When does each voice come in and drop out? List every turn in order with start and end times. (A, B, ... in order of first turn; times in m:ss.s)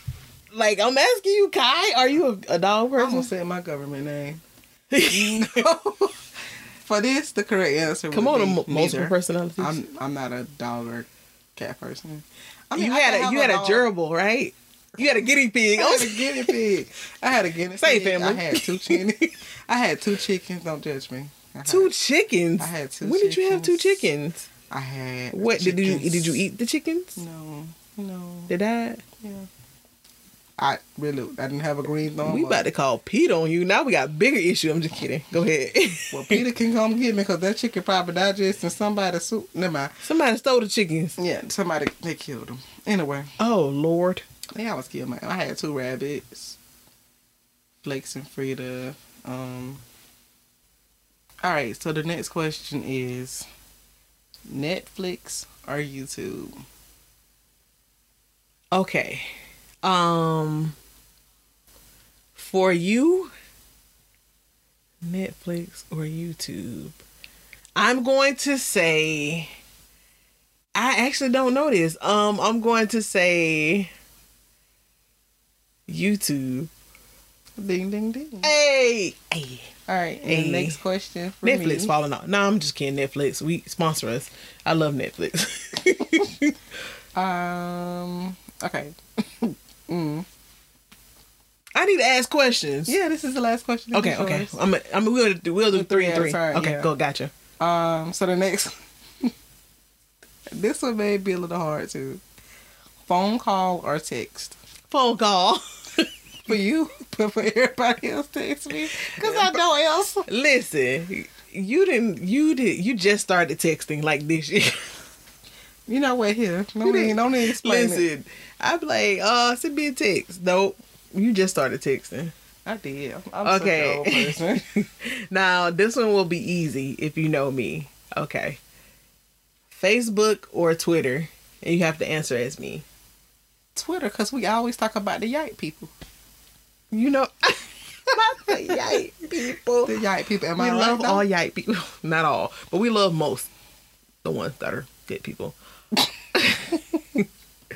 0:00.5-0:03.3 A
0:03.0-0:04.4 B
0:04.9-0:05.6 A
0:05.1-0:06.2 B
0:06.8-0:13.9 B
0:08.1-0:09.8 A
0:12.8-0:16.6 A
0:15.8-0:21.9 B
0:17.8-0:19.3 A
0:21.7-0:24.5 A
0:22.6-0:24.0 B
0:24.7-0:26.4 B
0:25.3-0:27.2 A
0:27.2-0:28.5 B
0:28.5-0:29.0 A
0:29.2-0:29.5 B
0:30.6-0:32.6 B
0:32.2-0:36.4 A
0:36.1-0:39.9 B
0:40.0-0:41.2 A
0:41.2-0:43.3 B
0:43.4-0:44.2 A
0:44.6-0:46.6 B
0:47.8-0:49.8 B
0:51.4-0:53.5 B
0:54.5-0:56.5 B
0:58.7-0:59.3 A
0:59.8-1:00.8 A
1:02.4-1:03.3 A
1:05.0-1:07.0 A
1:07.8-1:09.5 A
1:10.8-1:13.9 A
1:15.9-1:16.7 A
1:17.6-1:18.5 B
1:18.4-1:19.7 A
1:19.9-1:21.9 B
1:20.3-1:20.8 A
1:21.4-1:26.6 A
1:27.2-1:30.3 B
1:31.8-1:33.0 A
1:32.9-1:34.6 B
1:33.9-1:37.3 A
1:35.7-1:36.9 B
1:37.6-1:39.3 B
1:40.5-1:42.2 B
1:43.1-1:44.6 B
1:44.9-1:46.1 A
1:46.5-1:50.3 B
1:49.0-1:49.6 A
1:50.3-1:54.9 A
1:55.9-1:58.1 B
1:56.8-2:02.3 A
2:02.7-2:04.6 B
2:03.4-2:08.6 A
2:09.7-2:12.8 A
2:13.8-2:15.9 B
2:16.9-2:20.0 A
2:19.8-2:21.2 B
2:20.6-2:23.5 A
2:24.2-2:25.6 A
2:26.4-2:27.2 A